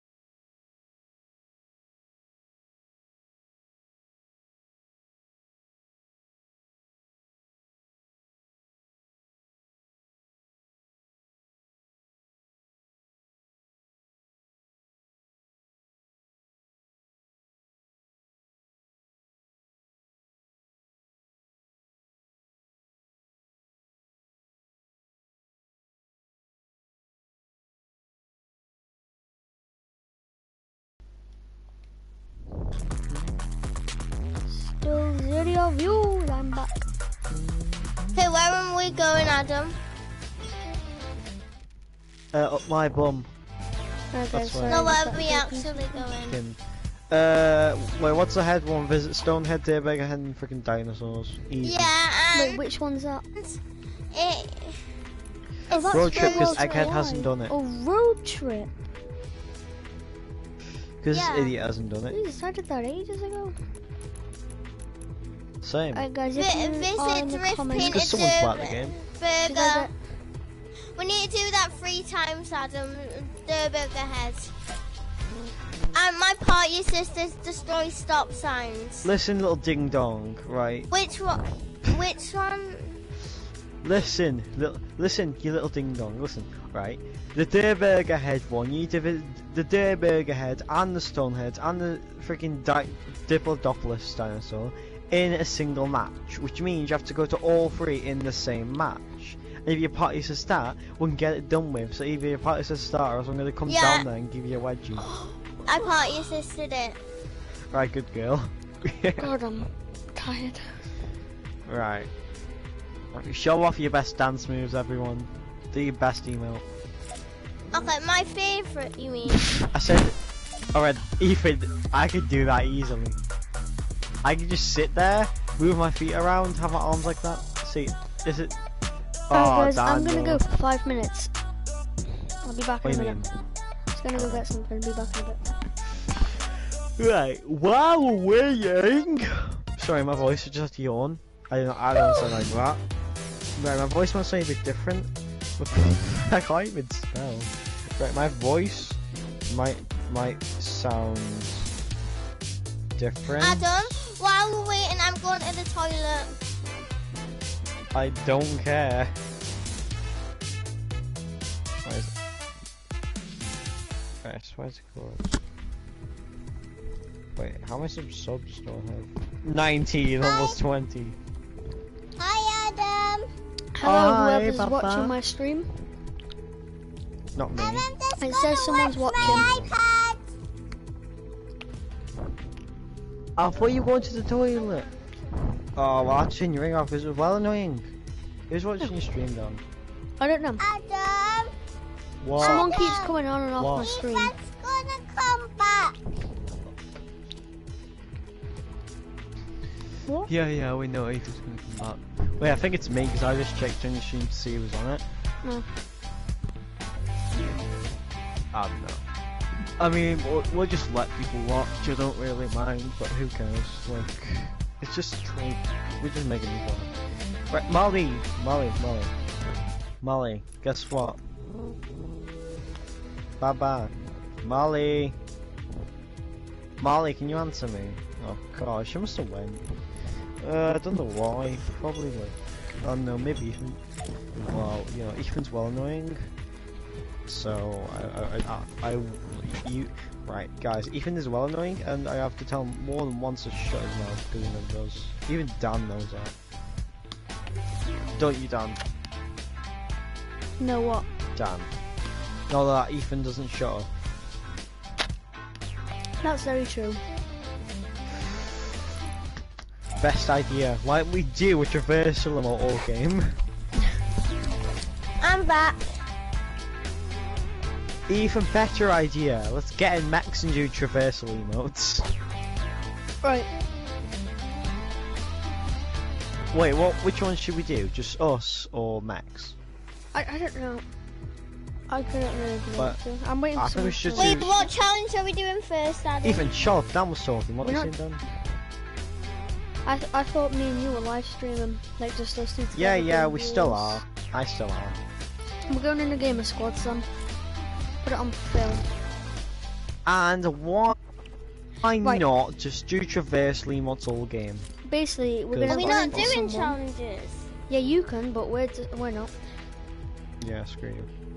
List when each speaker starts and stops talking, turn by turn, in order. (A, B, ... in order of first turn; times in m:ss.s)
0:33.1-0:33.4 A
0:34.5-0:36.9 B
0:37.3-0:38.3 A
0:38.1-0:39.8 C
0:42.3-0:43.3 A
0:44.1-0:46.1 B
0:44.3-0:45.0 A
0:44.7-0:46.4 C
0:46.3-0:46.6 A
0:47.1-0:51.9 A
0:51.6-0:52.6 C
0:52.3-0:53.2 B
0:54.1-0:54.8 C
0:55.7-0:56.7 C
0:55.7-0:58.8 B
0:55.9-0:57.6 A
1:01.0-1:02.2 A
1:01.1-1:01.5 C
1:02.1-1:03.6 B
1:05.6-1:06.0 A
1:05.9-1:08.2 B
1:06.4-1:09.9 C
1:07.8-1:09.0 A
1:09.4-1:09.9 B
1:10.9-1:14.5 C
1:15.9-1:19.1 C
1:19.0-1:20.9 A
1:20.9-1:23.0 C
1:23.8-1:45.1 A
1:43.6-1:44.0 C
1:45.6-1:47.0 C
1:47.7-1:49.3 A
1:49.2-1:50.8 B
1:51.6-1:52.1 A
1:53.1-1:56.6 A
1:57.7-1:59.6 C
1:59.7-2:00.2 A
2:00.7-2:03.2 A
2:04.2-2:08.6 A
2:09.3-2:10.4 A
2:09.3-2:11.3 B
2:12.4-2:13.4 B
2:12.8-2:13.3 A
2:13.9-2:15.4 B
2:14.1-2:14.4 A
2:17.0-2:22.8 A
2:23.6-2:31.7 A
2:33.0-2:33.9 A
2:33.4-2:36.3 C
2:37.9-2:39.1 A
2:41.8-2:42.1 A
2:44.2-2:45.3 A
2:47.4-2:51.2 A
2:50.2-2:50.6 C
2:52.2-2:53.3 C
2:53.7-2:55.8 B
2:53.8-2:55.2 A
2:57.4-2:57.9 A
2:57.5-3:00.2 C
2:58.2-2:59.6 B
2:59.2-2:59.7 A
3:03.4-3:04.9 A
3:04.5-3:05.1 C
3:05.8-3:07.9 A
3:08.5-3:09.6 A
3:10.2-3:10.6 B
3:10.6-3:11.5 C
3:12.2-3:13.0 A
3:12.4-3:13.1 C
3:12.4-3:14.3 B
3:13.6-3:13.9 A
3:13.8-3:16.0 C
3:20.0-3:20.3 B
3:20.3-3:25.0 A
3:27.3-3:27.6 A
3:28.5-3:29.0 A
3:29.8-3:36.9 A
3:37.5-3:41.2 A
3:43.4-3:45.2 A
3:46.8-3:49.7 A
3:50.4-3:53.8 A
3:54.3-3:56.3 A
3:57.3-4:06.4 A
4:08.1-4:08.8 A
4:10.6-4:11.1 B
4:11.4-4:11.7 A
4:12.5-4:13.9 A
4:16.2-4:17.0 B
4:19.9-4:23.4 A
4:25.2-4:26.0 C
4:28.1-4:32.1 A
4:33.2-4:33.5 B
4:36.5-4:39.6 A
4:40.1-4:40.8 B
4:41.9-4:44.7 B
4:43.6-4:44.5 A
4:44.1-4:46.4 C
4:46.2-4:48.2 A
4:47.6-4:47.9 B
4:49.8-4:54.0 B
4:52.7-4:55.0 A
4:55.7-4:57.1 B
4:58.0-4:58.9 B
5:00.0-5:01.0 A
5:01.8-5:04.7 A
5:04.9-5:06.8 B
5:05.5-5:06.4 A
5:05.7-5:07.5 C
5:07.7-5:09.3 B
5:10.4-5:11.1 A